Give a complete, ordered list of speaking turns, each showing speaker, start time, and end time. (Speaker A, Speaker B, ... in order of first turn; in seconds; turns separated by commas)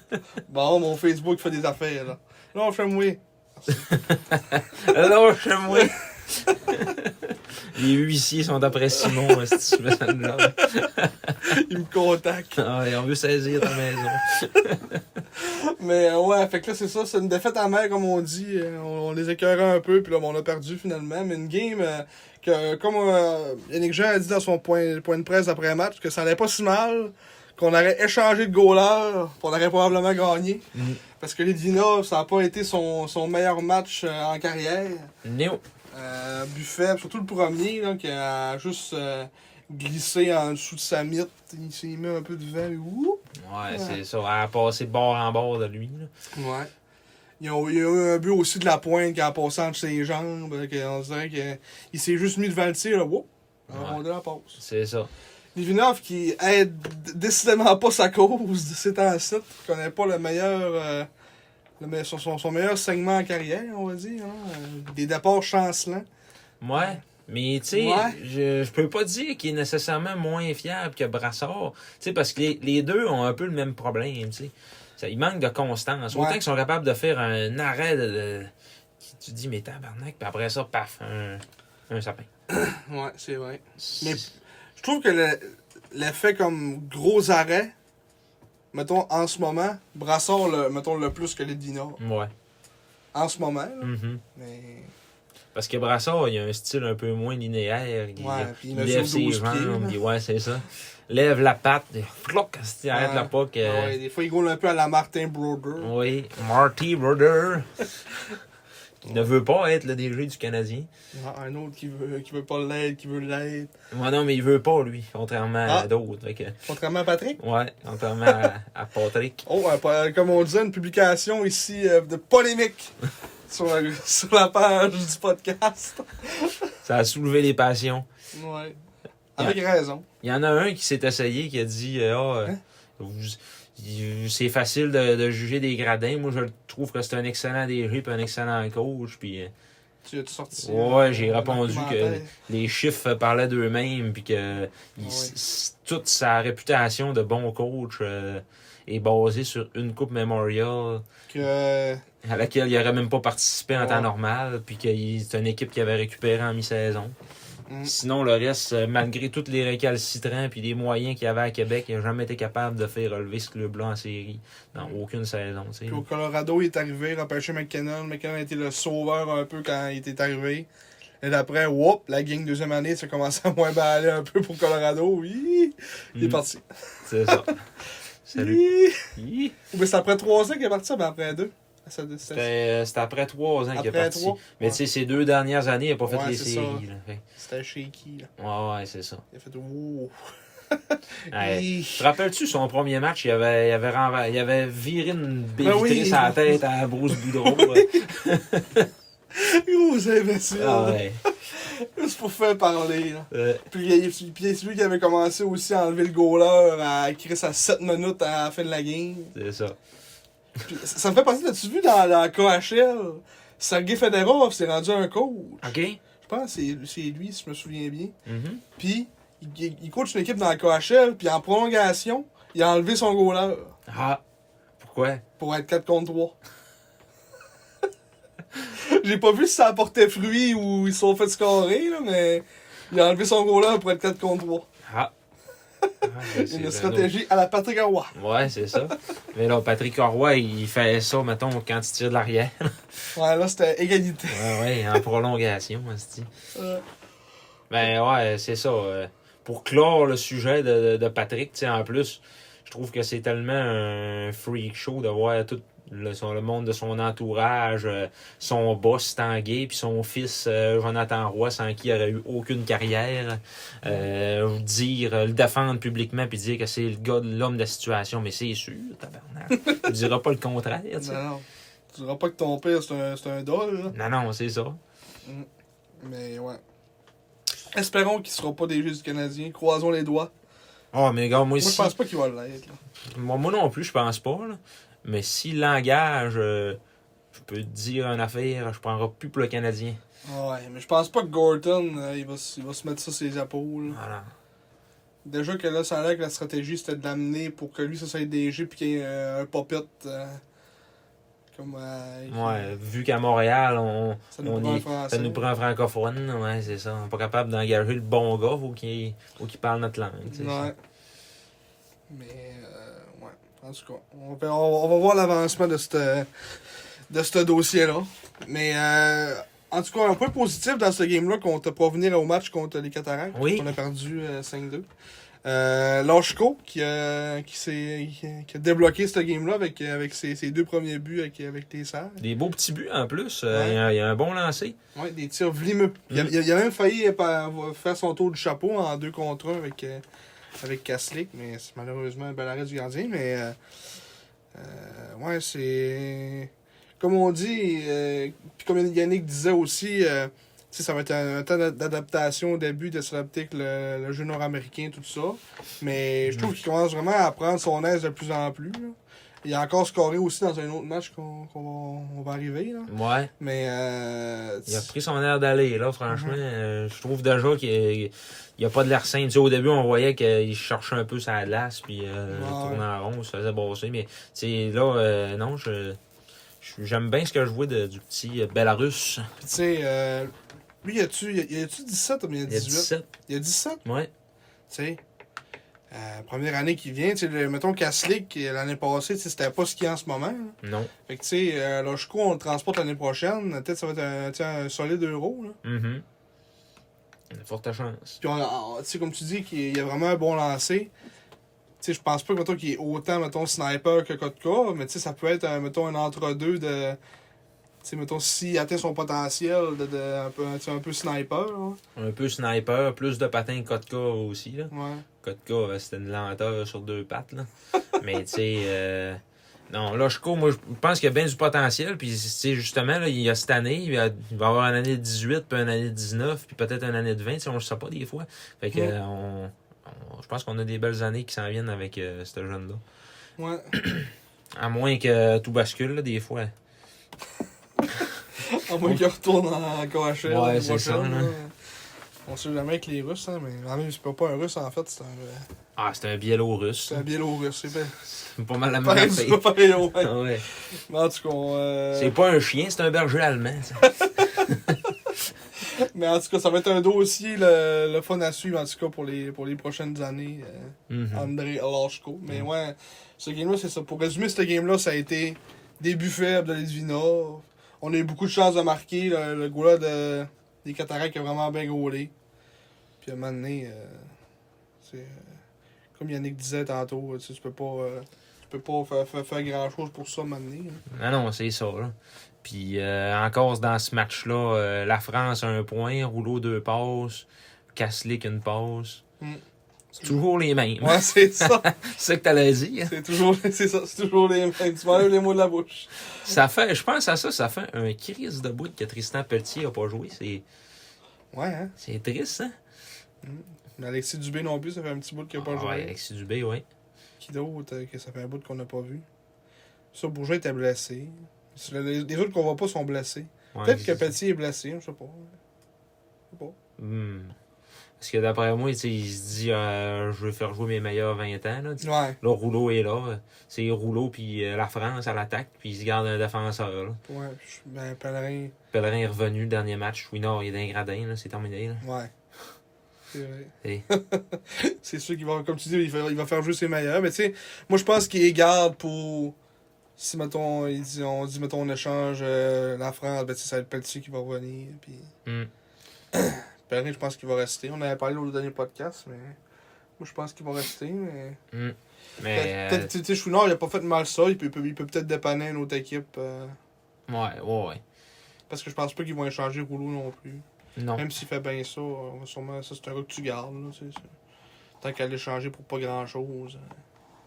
Speaker A: 0.5-3.9, Speaker B: 3.8-11.5, Speaker A: 11.4-12.6, Speaker B: 12.6-15.2, Speaker A: 15.3-35.1, Speaker B: 30.7-31.0, Speaker B: 35.2-35.6, Speaker A: 35.9-44.0, Speaker B: 43.4-46.1, Speaker A: 46.4-46.7, Speaker A: 47.4-54.6, Speaker B: 53.7-54.0, Speaker B: 54.5-55.1, Speaker A: 55.5-61.1, Speaker A: 61.8-66.0, Speaker B: 66.6-82.3, Speaker A: 66.7-67.0, Speaker A: 67.7-68.2, Speaker A: 76.1-76.4, Speaker A: 82.5-87.7, Speaker B: 83.8-84.3, Speaker A: 88.7-92.0, Speaker B: 92.0-92.3, Speaker A: 93.1-94.9, Speaker B: 93.8-94.2, Speaker B: 95.5-104.0, Speaker A: 98.2-100.0, Speaker A: 102.9-105.9, Speaker B: 105.8-107.9, Speaker B: 109.0-110.9, Speaker A: 111.1-113.7, Speaker B: 113.9-116.6, Speaker A: 116.7-117.4, Speaker B: 117.4-119.4, Speaker A: 119.5-122.9, Speaker A: 123.5-126.7, Speaker B: 126.8-128.1, Speaker A: 128.3-128.8, Speaker A: 129.4-130.0, Speaker B: 130.2-139.5, Speaker A: 140.0-142.3, Speaker B: 140.6-151.0, Speaker A: 145.0-145.3, Speaker A: 151.3-152.0, Speaker B: 152.2-157.1, Speaker A: 153.7-154.1, Speaker A: 157.7-157.9, Speaker B: 157.8-166.0, Speaker A: 165.9-170.7, Speaker A: 171.2-177.5, Speaker B: 176.1-176.4, Speaker B: 177.1-177.6, Speaker B: 178.2-178.6, Speaker A: 178.3-179.1, Speaker B: 179.1-179.5, Speaker A: 179.7-182.5, Speaker B: 182.3-187.2, Speaker A: 183.7-184.8, Speaker A: 186.1-186.8, Speaker A: 187.3-188.3, Speaker B: 188.4-189.2, Speaker A: 189.3-192.0, Speaker B: 191.3-198.9, Speaker A: 195.6-198.1, Speaker A: 199.3-209.3, Speaker B: 200.5-201.2, Speaker B: 203.3-203.6, Speaker B: 209.3-209.8, Speaker A: 210.7-218.1, Speaker B: 215.6-216.0, Speaker B: 218.2-218.6, Speaker A: 218.8-223.7, Speaker B: 223.9-224.2, Speaker B: 224.8-225.2, Speaker A: 225.4-226.3, Speaker A: 228.6-234.7, Speaker B: 234.8-235.1, Speaker B: 236.0-237.1, Speaker A: 236.3-238.1, Speaker B: 238.1-243.1, Speaker A: 243.1-245.0, Speaker B: 244.3-246.3, Speaker A: 246.5-246.8, Speaker B: 247.7-271.2, Speaker A: 269.6-269.9, Speaker A: 271.0-273.9, Speaker B: 273.9-274.8, Speaker A: 276.0-276.6, Speaker A: 277.7-280.3, Speaker B: 280.9-281.9, Speaker A: 281.6-282.8, Speaker B: 283.1-286.8, Speaker B: 287.3-290.0, Speaker A: 290.2-294.0, Speaker B: 293.9-294.3, Speaker A: 295.2-300.4, Speaker A: 301.5-302.7, Speaker B: 302.3-310.7, Speaker A: 304.3-305.4, Speaker A: 310.3-310.8, Speaker A: 312.1-316.3, Speaker A: 317.1-324.9, Speaker B: 323.3-323.7, Speaker A: 325.4-332.2, Speaker B: 332.2-334.8, Speaker A: 333.5-333.8, Speaker A: 334.9-340.0, Speaker A: 340.6-343.6, Speaker A: 344.5-364.9, Speaker B: 362.9-363.3, Speaker B: 364.7-376.0, Speaker A: 366.1-366.4, Speaker A: 372.3-372.8, Speaker B: 376.6-379.3, Speaker A: 379.4-380.3, Speaker A: 380.8-383.8, Speaker B: 382.5-383.1, Speaker B: 383.8-384.1, Speaker A: 384.7-385.0, Speaker A: 385.9-395.6, Speaker B: 390.6-390.9, Speaker B: 395.6-396.0, Speaker B: 397.3-398.2, Speaker A: 398.2-400.9, Speaker A: 401.8-407.0, Speaker A: 407.8-411.8, Speaker B: 411.9-432.8, Speaker A: 414.7-415.0, Speaker A: 433.4-433.7, Speaker B: 433.7-436.5, Speaker A: 438.4-441.5, Speaker B: 440.2-441.3, Speaker A: 442.2-445.5, Speaker B: 445.8-447.1, Speaker A: 446.9-447.9, Speaker B: 448.0-450.4, Speaker A: 448.8-452.1, Speaker B: 451.9-454.8, Speaker A: 455.6-472.1, Speaker B: 460.9-461.3, Speaker A: 473.0-474.1, Speaker A: 474.8-475.4, Speaker A: 475.9-480.8, Speaker B: 480.9-489.0, Speaker B: 490.0-492.9, Speaker A: 490.8-491.6, Speaker A: 492.9-496.3, Speaker B: 496.2-500.4, Speaker A: 501.3-501.7, Speaker B: 501.8-502.6, Speaker A: 503.2-505.9, Speaker B: 505.4-506.6, Speaker A: 507.2-509.1, Speaker A: 509.9-515.4, Speaker B: 513.5-514.1, Speaker B: 516.8-517.4, Speaker B: 518.0-527.0, Speaker A: 521.8-522.2, Speaker A: 527.1-528.5, Speaker B: 528.7-531.8, Speaker A: 531.8-532.1, Speaker A: 533.1-539.4, Speaker A: 540.0-545.1, Speaker A: 546.1-549.4, Speaker A: 550.0-551.4, Speaker B: 551.5-552.9, Speaker A: 552.3-556.6, Speaker B: 557.1-557.8, Speaker A: 558.5-560.4, Speaker B: 560.8-561.0, Speaker A: 561.0-564.1, Speaker A: 564.8-566.8